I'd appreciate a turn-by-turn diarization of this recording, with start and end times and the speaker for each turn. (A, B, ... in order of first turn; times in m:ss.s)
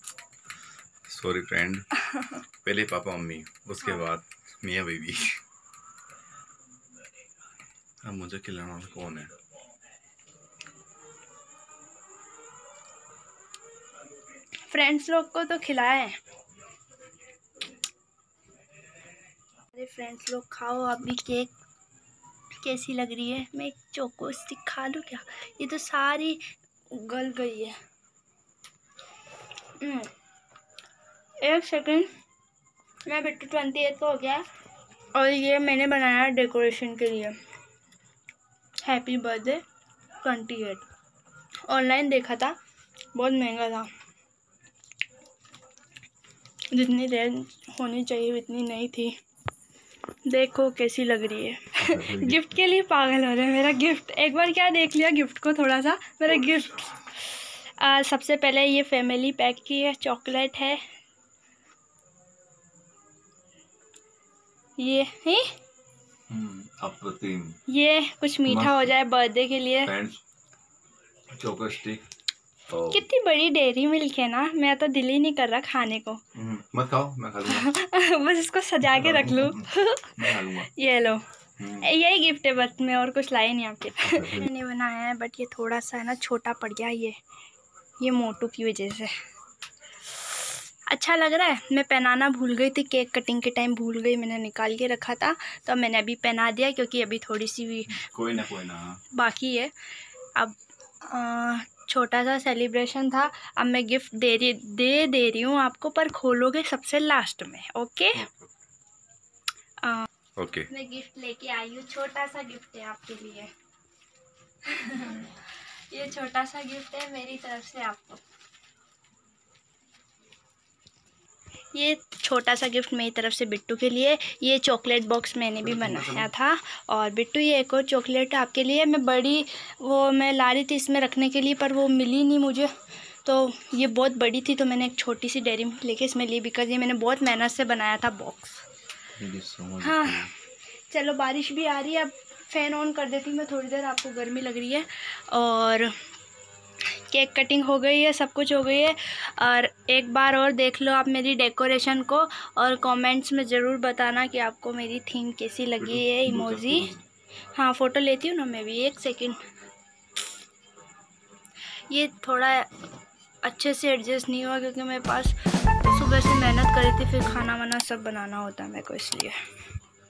0:01.1-0:02.0 A
0:02.6-0:05.3 A
0:08.0-0:09.3 A
0:14.7-0:16.2 B
0:19.7-0:21.5 B
0:22.6-0:26.4 B
0:26.9-0:27.7 B
0:29.8-0:30.1 B
0:31.4-0:32.1 B
0:33.0-0:34.4 B
0:35.1-0:37.4 B
0:38.8-0:39.6 B
0:40.2-0:40.8 B
0:41.7-0:42.5 B
0:43.1-0:43.9 B
0:46.7-0:49.1 B
0:50.2-1:00.8 B
0:51.8-0:52.4 A
1:04.8-1:05.5 B
1:06.3-1:07.6 A
1:07.7-1:09.9 B
1:08.4-1:09.0 A
1:09.8-1:10.2 A
1:11.3-1:12.0 A
1:12.7-1:13.0 A
1:12.9-1:16.2 B
1:16.3-1:17.8 A
1:17.5-1:21.2 B
1:18.8-1:20.7 A
1:21.6-1:21.9 A
1:21.8-1:27.2 B
1:24.0-1:24.5 A
1:28.0-1:29.1 B
1:30.9-1:37.9 B
1:37.9-1:39.0 A
1:39.2-1:39.7 B
1:40.4-1:48.2 B
1:48.1-1:48.5 A
1:50.4-1:50.7 A
1:50.7-1:53.5 B
1:54.6-1:55.4 B
1:55.9-1:58.2 B
2:01.7-2:12.7 B
2:05.6-2:06.3 A
2:13.2-2:18.6 B
2:19.2-2:20.3 A
2:19.8-2:20.3 B
2:20.9-2:25.9 B
2:27.1-2:36.9 B
2:35.8-2:37.0 A
2:37.5-2:39.4 B
2:41.9-2:42.7 B
2:43.4-2:45.4 B
2:45.9-2:49.4 B